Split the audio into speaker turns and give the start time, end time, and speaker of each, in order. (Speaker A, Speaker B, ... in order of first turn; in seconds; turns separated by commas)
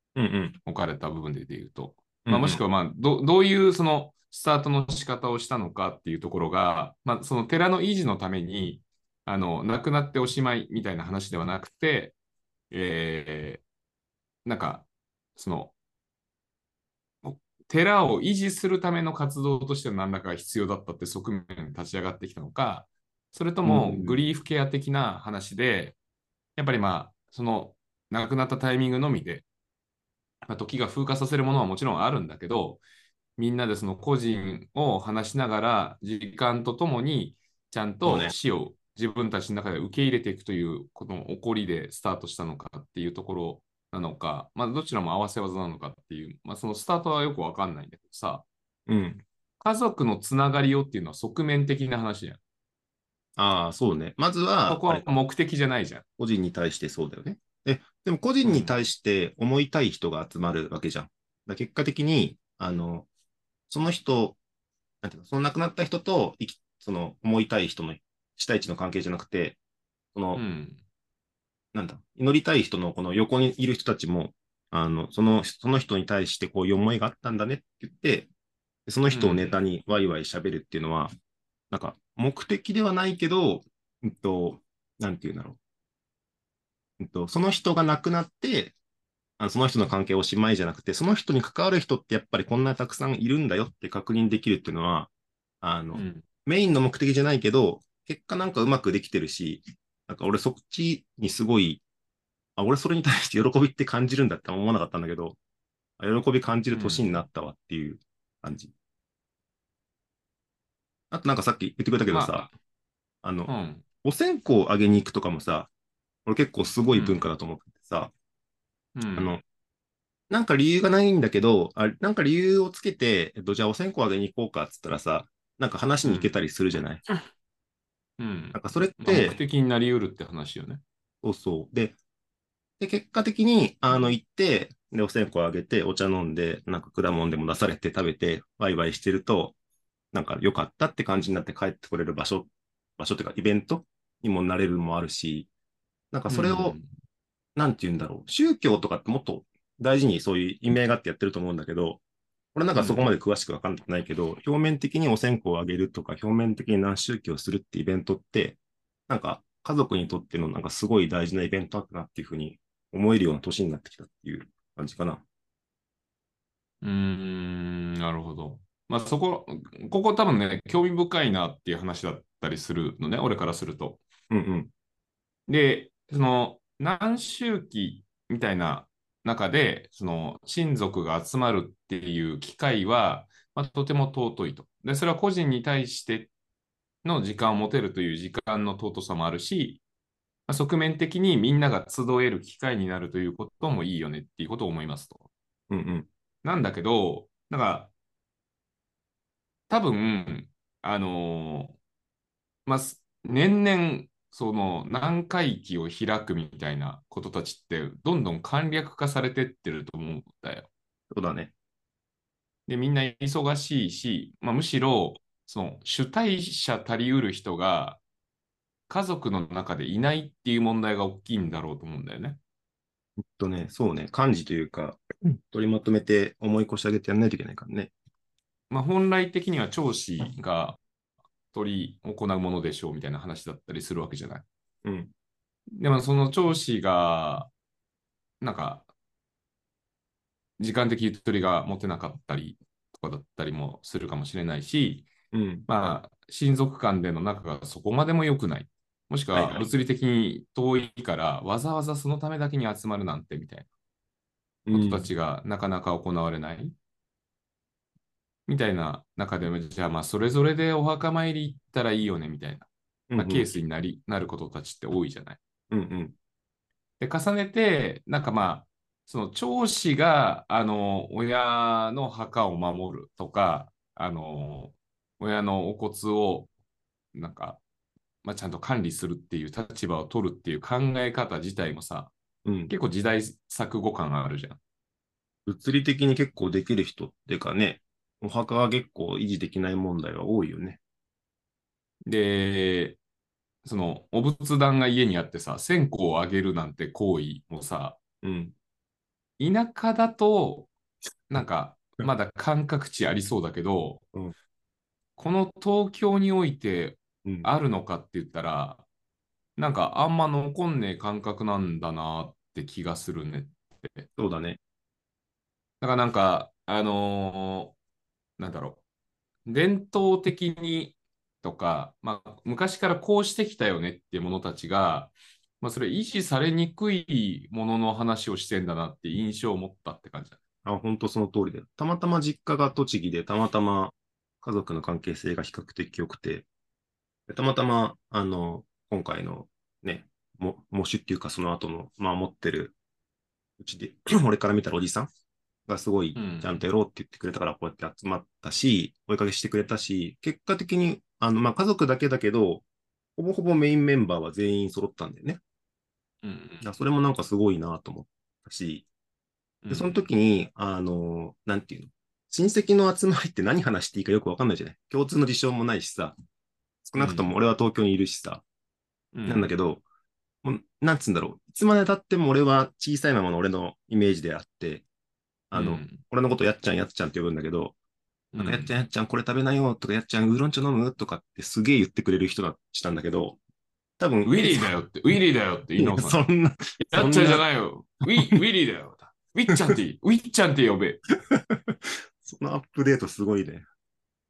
Speaker A: 0.1-0.6, Speaker B: 0.6-12.2, Speaker A: 2.2-2.6, Speaker B: 12.7-13.6, Speaker B: 14.4-15.7, Speaker B: 17.2-26.0, Speaker A: 23.6-24.2, Speaker B: 26.6-29.4, Speaker B: 30.5-32.8, Speaker B: 33.4-48.4, Speaker A: 38.0-38.3, Speaker A: 48.9-49.2, Speaker B: 49.6-52.4, Speaker A: 53.4-55.1, Speaker B: 54.7-56.0, Speaker A: 56.2-63.1, Speaker B: 58.4-58.8, Speaker A: 63.7-64.4, Speaker A: 65.0-69.6, Speaker A: 70.1-70.4, Speaker B: 70.3-70.8, Speaker A: 71.7-78.3, Speaker A: 78.9-81.1, Speaker B: 79.1-79.5, Speaker A: 81.7-85.6, Speaker A: 87.0-88.7, Speaker A: 89.4-101.8, Speaker B: 95.9-96.2, Speaker A: 102.6-105.4, Speaker A: 106.0-108.7, Speaker B: 106.7-107.1, Speaker A: 111.1-112.5, Speaker B: 112.1-112.5, Speaker A: 113.2-113.5, Speaker B: 113.5-113.8, Speaker A: 114.0-115.7, Speaker A: 116.2-118.1, Speaker B: 116.9-117.2, Speaker B: 119.0-119.3, Speaker A: 119.2-119.4, Speaker A: 120.3-127.0, Speaker B: 126.0-126.3, Speaker B: 128.2-130.8, Speaker A: 128.5-129.4, Speaker A: 131.2-131.9, Speaker A: 132.8-139.5, Speaker A: 140.1-145.5, Speaker A: 146.1-146.8, Speaker B: 146.3-146.8, Speaker A: 147.6-152.0, Speaker A: 152.5-165.2, Speaker B: 152.7-153.1, Speaker B: 166.8-174.0, Speaker A: 174.3-174.7, Speaker B: 175.5-186.3, Speaker B: 187.0-189.8, Speaker B: 190.5-195.3, Speaker A: 195.7-196.1, Speaker B: 196.4-197.9, Speaker B: 199.7-201.8, Speaker B: 202.7-210.7, Speaker A: 211.1-211.5, Speaker B: 212.7-218.0, Speaker B: 218.9-222.4, Speaker A: 223.2-227.9, Speaker B: 228.7-230.8, Speaker B: 231.5-234.4, Speaker A: 234.8-235.1, Speaker B: 235.8-237.5, Speaker B: 238.4-238.9, Speaker B: 240.6-245.1, Speaker A: 245.3-245.7, Speaker B: 245.7-253.7, Speaker A: 249.3-249.7, Speaker A: 254.7-255.1, Speaker B: 254.7-256.7, Speaker B: 258.5-265.4, Speaker A: 263.1-263.5, Speaker A: 265.7-266.1, Speaker B: 267.0-276.5, Speaker B: 277.1-277.6, Speaker B: 278.2-282.1, Speaker A: 282.4-282.7, Speaker B: 282.7-284.6, Speaker A: 285.4-290.8, Speaker B: 292.1-293.0, Speaker B: 293.6-298.0, Speaker A: 298.2-298.5, Speaker B: 299.4-300.7, Speaker B: 301.3-304.0, Speaker B: 305.2-308.8, Speaker B: 309.6-314.1, Speaker A: 314.2-314.6, Speaker B: 315.8-317.8, Speaker B: 318.4-318.8, Speaker B: 319.4-330.4, Speaker A: 330.6-336.5, Speaker A: 337.3-342.7, Speaker A: 343.6-345.1, Speaker A: 345.7-352.6, Speaker B: 346.1-346.6, Speaker A: 353.2-355.4, Speaker B: 356.2-356.6, Speaker A: 356.6-358.9, Speaker B: 359.6-360.1, Speaker A: 359.7-366.1, Speaker A: 366.8-368.4, Speaker B: 367.0-367.3, Speaker B: 369.1-369.5, Speaker A: 369.2-369.8, Speaker A: 370.4-374.8, Speaker A: 375.5-377.7, Speaker B: 375.5-376.0, Speaker B: 378.3-378.7, Speaker A: 378.3-383.4, Speaker A: 384.0-384.7, Speaker B: 384.2-386.2, Speaker A: 385.8-387.4, Speaker B: 386.8-391.0, Speaker A: 388.1-388.4, Speaker A: 391.3-393.6